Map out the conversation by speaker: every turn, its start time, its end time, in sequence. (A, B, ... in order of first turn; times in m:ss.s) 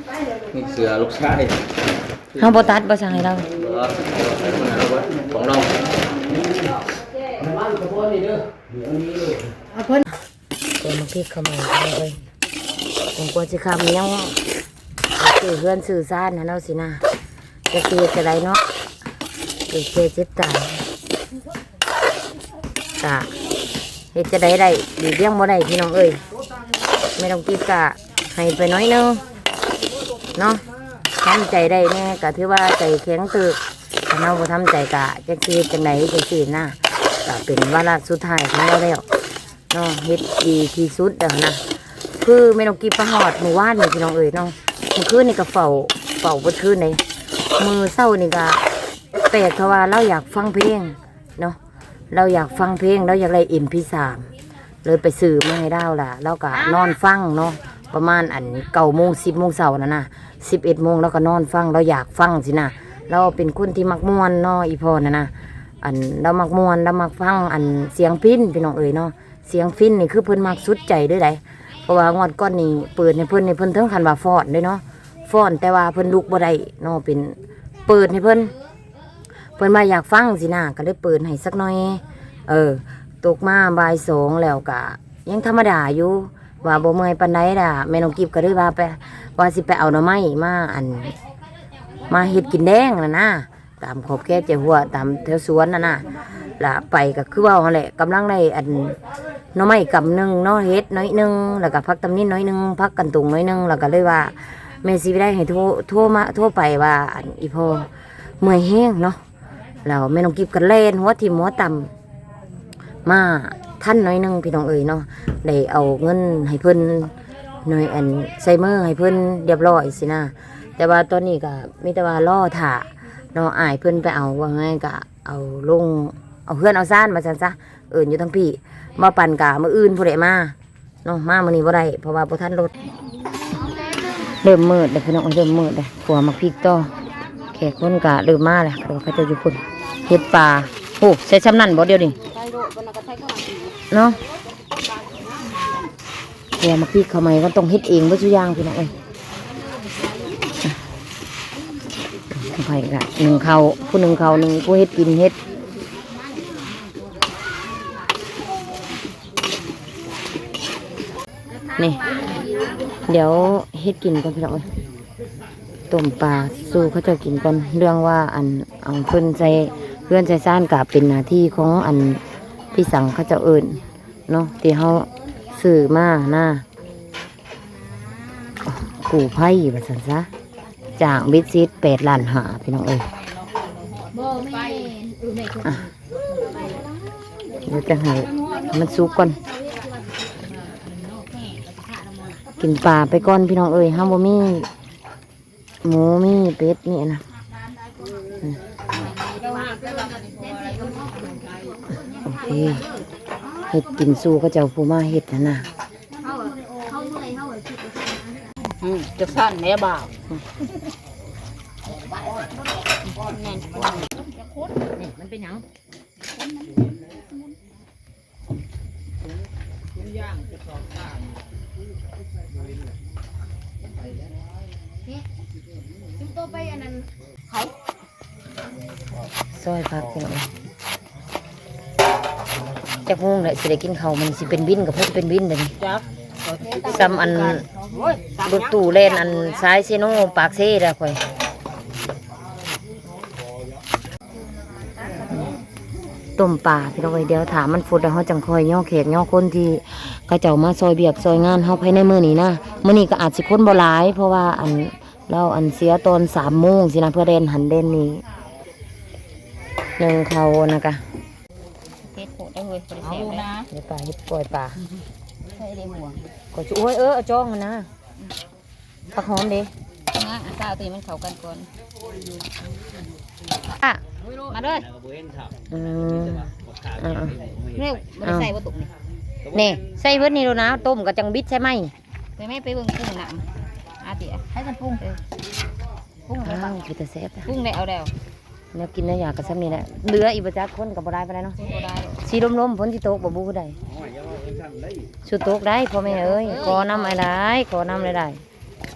0:00.4-0:01.6 A
0:02.3-0:03.5 B
0:03.5-0:05.9 A
0:10.8-0:12.2 B
0:13.1-0:14.4 B
0:15.2-0:17.0 B
0:17.7-0:18.6 B
0:19.7-0:20.8 B
0:23.0-0:23.3 B
0:24.1-0:26.2 B
0:27.2-0:29.2 B
0:30.4-0:30.6 B
0:31.2-0:39.0 B
0:39.7-0:41.6 B
0:42.2-0:47.0 B
0:47.6-0:48.6 B
0:49.3-0:51.6 B
0:52.1-0:54.3 B
0:54.8-1:18.5 B
1:19.6-1:31.2 B
1:32.1-1:36.1 B
1:36.6-1:39.0 B
1:39.5-1:47.9 B
1:48.4-1:49.2 B
1:49.8-1:51.9 B
1:53.0-1:57.1 B
1:57.6-2:12.7 B
2:14.4-2:16.9 B
2:17.5-2:22.2 B
2:22.2-2:23.8 C
2:23.9-2:24.2 B
2:26.6-2:28.9 B
2:32.3-2:35.4 B
2:36.2-2:36.9 C
2:41.8-2:42.2 B
2:42.1-2:42.7 C
2:43.1-2:44.7 B
2:45.9-2:52.2 B
2:52.7-2:56.6 B
2:58.6-3:00.3 B
3:01.0-3:03.1 B
3:04.0-3:05.6 C
3:05.6-3:05.9 B
3:07.6-3:09.4 B
3:11.2-3:12.4 C
3:12.6-3:14.7 B
3:15.8-3:17.2 B
3:18.9-3:21.7 C
3:22.2-3:22.9 B
3:23.7-3:25.7 B
3:26.2-3:30.1 C
3:33.2-3:34.6 C
3:35.0-3:35.6 B
3:46.4-3:47.0 C
3:49.5-3:50.5 B
3:53.0-3:55.8 B
3:55.8-3:58.4 C
3:56.8-3:57.6 B
3:58.4-4:01.2 B
3:59.0-3:59.4 C
4:06.4-4:18.2 B
4:20.0-4:21.0 B
4:22.1-4:23.6 C
4:23.7-4:24.8 B
4:25.6-4:26.2 C
4:26.5-4:27.9 B
4:29.1-4:29.7 B
4:30.1-4:31.7 C
4:34.3-4:34.8 C
4:35.7-4:37.4 B
4:37.7-4:38.9 C
4:38.2-4:38.5 B
4:39.5-4:41.9 B
4:42.4-4:43.5 C
4:44.0-4:45.2 C
4:46.3-4:46.7 C
4:46.4-4:47.5 B
4:47.4-4:48.1 C
4:48.7-4:51.6 B
4:51.6-4:52.2 C
4:52.2-4:53.8 B
4:55.2-4:58.4 B
4:56.2-4:57.0 C